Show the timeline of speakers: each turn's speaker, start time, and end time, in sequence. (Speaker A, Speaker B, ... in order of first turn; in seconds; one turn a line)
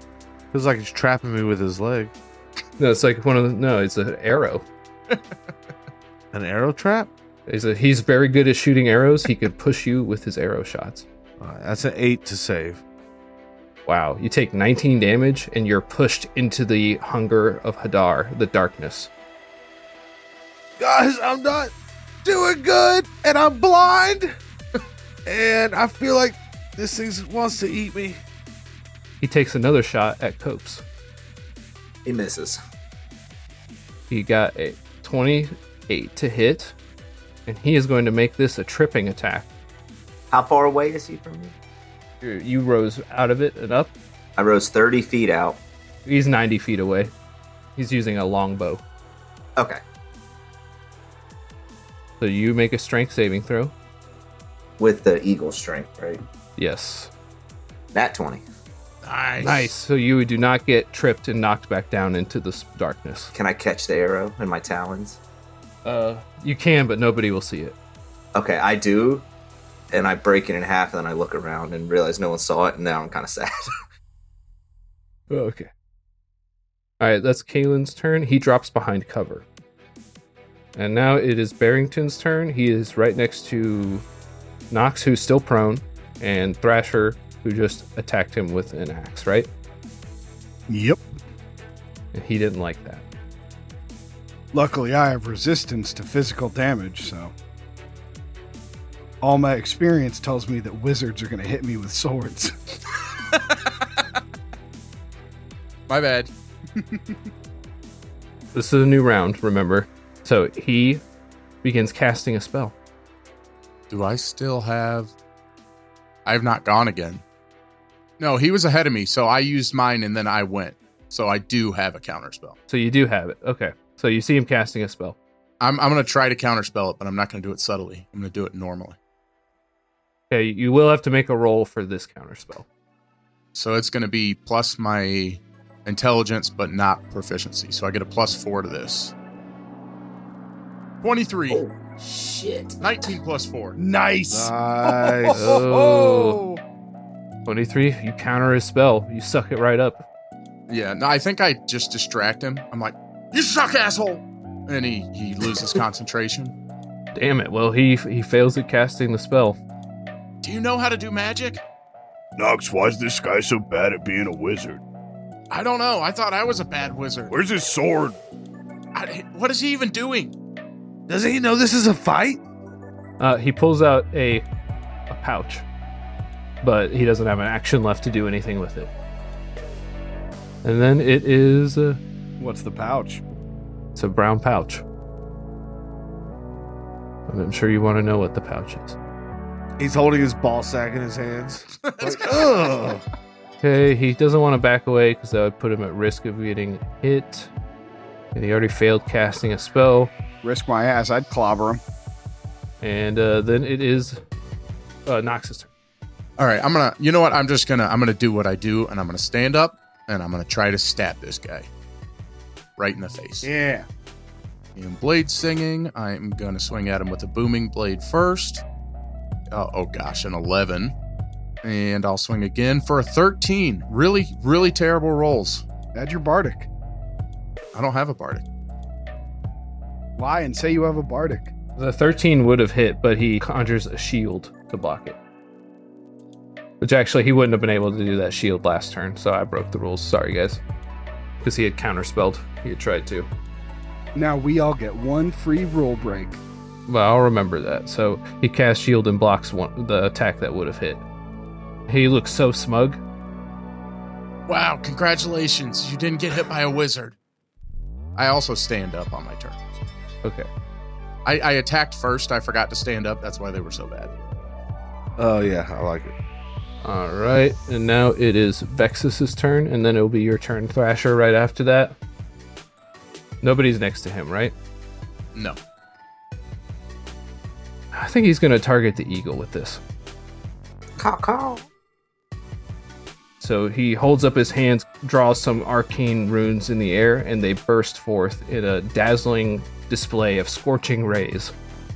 Speaker A: 0.5-2.1
Speaker B: 2.8-4.7
Speaker A: 6.3-7.1
Speaker B: 7.5-11.1
Speaker A: 11.4-12.8
Speaker B: 13.9-19.1
Speaker A: 20.8-21.7
Speaker A: 22.2-24.4
Speaker A: 25.3-28.2
Speaker B: 29.2-30.8
Speaker C: 32.0-32.6
Speaker B: 34.1-36.8
Speaker B: 37.5-39.5
Speaker C: 40.3-41.5
Speaker B: 42.2-43.9
Speaker C: 44.4-45.6
Speaker B: 46.1-47.1
Speaker B: 47.8-48.8
Speaker B: 52.2-53.7
Speaker C: 54.8-56.2
Speaker B: 56.6-57.1
Speaker C: 57.9-58.4
Speaker D: 59.0-59.7
Speaker B: 59.4-63.3
Speaker C: 63.3-65.2
Speaker B: 65.8-67.8
Speaker C: 68.3-69.3
Speaker C: 69.9-73.5
Speaker B: 75.3-75.7
Speaker B: 77.0-79.5
Speaker B: 80.8-84.0
Speaker B: 84.7-89.5
Speaker E: 90.7-91.0
Speaker B: 92.1-93.0
Speaker E: 94.5-97.3
Speaker E: 99.2-102.7
Speaker D: 105.9-106.3
Speaker E: 106.8-107.2
Speaker B: 108.5-111.0
Speaker B: 111.6-112.8
Speaker D: 113.9-115.1
Speaker D: 116.3-117.2
Speaker D: 118.2-122.6
Speaker B: 122.7-125.2
Speaker D: 125.6-129.0
Speaker B: 130.3-132.7
Speaker D: 133.6-139.1
Speaker D: 141.0-141.6
Speaker C: 141.5-143.1
Speaker D: 142.8-143.8
Speaker E: 143.8-146.6
Speaker A: 144.3-145.6
Speaker B: 145.3-146.4
Speaker B: 147.5-150.1
Speaker D: 150.7-156.6
Speaker B: 157.2-159.6
Speaker D: 160.4-161.6
Speaker F: 162.4-164.8
Speaker D: 165.5-167.3
Speaker F: 167.3-168.2
Speaker D: 168.9-170.3
Speaker A: 171.1-172.4
Speaker B: 173.2-174.4
Speaker B: 175.1-175.7
Speaker B: 176.6-178.9
Speaker B: 180.6-182.0
Speaker E: 182.4-183.2
Speaker B: 183.9-184.8
Speaker B: 187.3-189.0
Speaker A: 189.8-193.0
Speaker D: 191.9-192.5
Speaker B: 193.6-197.5
Speaker B: 198.3-200.1
Speaker E: 200.4-201.8
Speaker B: 202.8-204.2
Speaker B: 205.1-205.7
Speaker D: 206.4-211.7
Speaker D: 212.8-213.5
Speaker E: 213.4-213.9
Speaker D: 214.8-218.6
Speaker D: 219.5-220.9
Speaker D: 221.6-225.6
Speaker E: 225.9-226.7
Speaker D: 227.7-228.4
Speaker E: 230.2-231.5
Speaker B: 231.8-235.2
Speaker B: 236.8-240.6
Speaker B: 241.4-243.3
Speaker E: 244.2-246.4
Speaker B: 246.9-251.1
Speaker B: 251.9-253.0
Speaker D: 254.5-257.2
Speaker D: 258.2-259.6
Speaker D: 261.2-264.1
Speaker A: 265.2-266.1
Speaker B: 266.8-272.0
Speaker B: 273.4-274.5
Speaker B: 277.9-279.8
Speaker C: 281.0-281.7
Speaker B: 283.4-291.5